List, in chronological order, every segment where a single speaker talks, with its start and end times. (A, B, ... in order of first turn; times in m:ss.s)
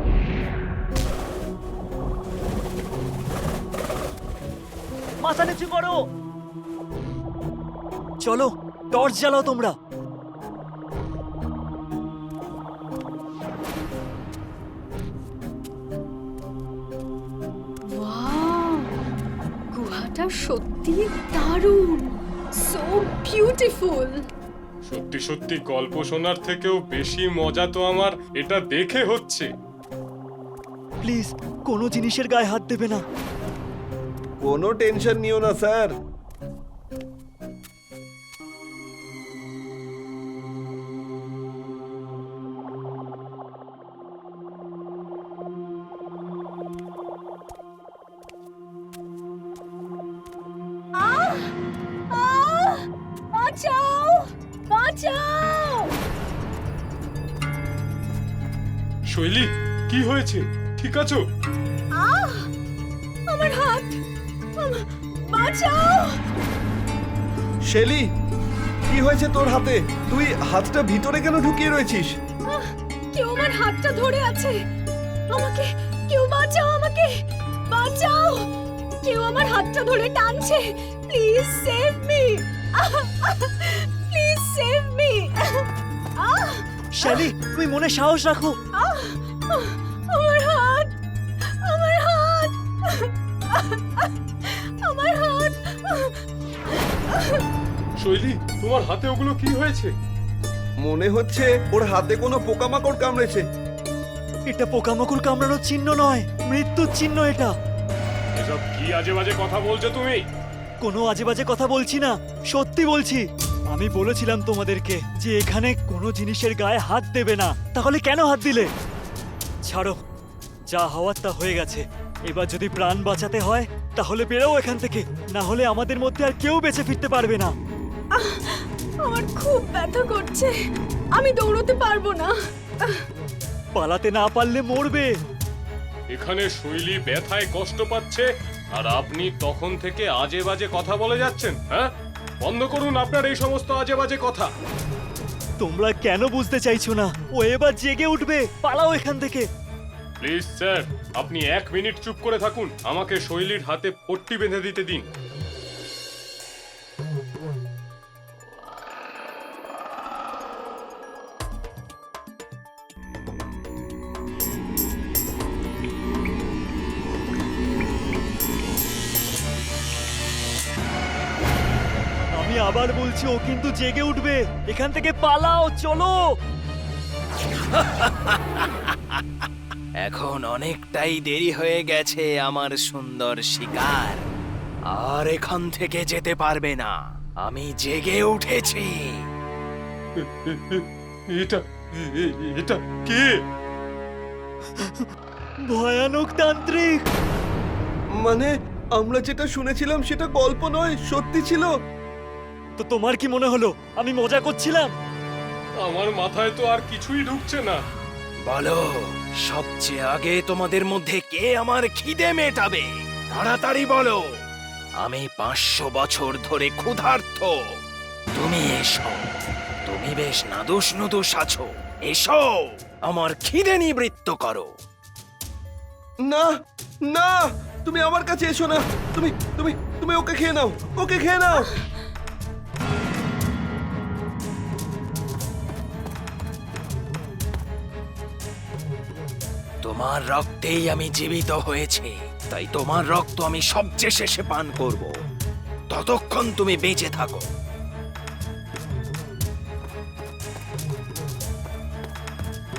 0:05.2-0:06.0 A
0:08.2-0:09.7 A
0:17.9-0:18.9 B
0:19.7-0:22.1 B
0:22.6-0:24.2 B
0:24.9-0:29.5 C
0:31.0-0:33.0 A
0:34.4-0:35.9 D
0:51.0-0:51.5 B
0:52.1-0:55.9 B
0:59.1-1:01.2 C
1:01.9-1:02.5 B
1:03.3-1:04.0 B
1:04.6-1:06.1 B
1:07.7-1:08.0 D
1:08.9-1:12.1 D
1:12.5-1:14.5 B
1:15.3-1:17.1 B
1:17.7-1:18.4 B
1:19.0-1:25.7 B
1:26.2-1:27.3 B
1:26.9-1:28.5 A
1:28.7-1:30.9 B
1:31.6-1:36.2 B
1:37.1-1:37.4 B
1:38.0-1:39.9 C
1:40.8-1:43.4 D
1:44.5-1:47.5 A
1:48.4-1:50.2 C
1:50.8-1:58.7 A
1:59.6-2:00.0 A
2:00.7-2:07.5 A
2:08.1-2:10.5 B
2:11.1-2:13.0 B
2:13.8-2:15.1 A
2:16.1-2:21.9 C
2:22.4-2:24.5 C
2:25.6-2:29.4 A
2:30.2-2:35.0 C
2:52.3-2:56.2 A
3:00.0-3:04.2 E
3:04.9-3:09.1 E
3:10.2-3:13.3 C
3:14.8-3:15.0 A
3:15.7-3:17.0 A
3:18.2-3:21.7 D
3:22.8-3:24.9 A
3:25.8-3:27.8 C
3:28.4-3:34.3 E
3:35.0-3:37.6 E
3:38.3-3:39.2 E
3:39.8-3:44.7 E
3:46.2-3:46.5 D
3:47.1-3:51.7 D
3:59.8-4:05.1 E
4:05.9-4:07.5 E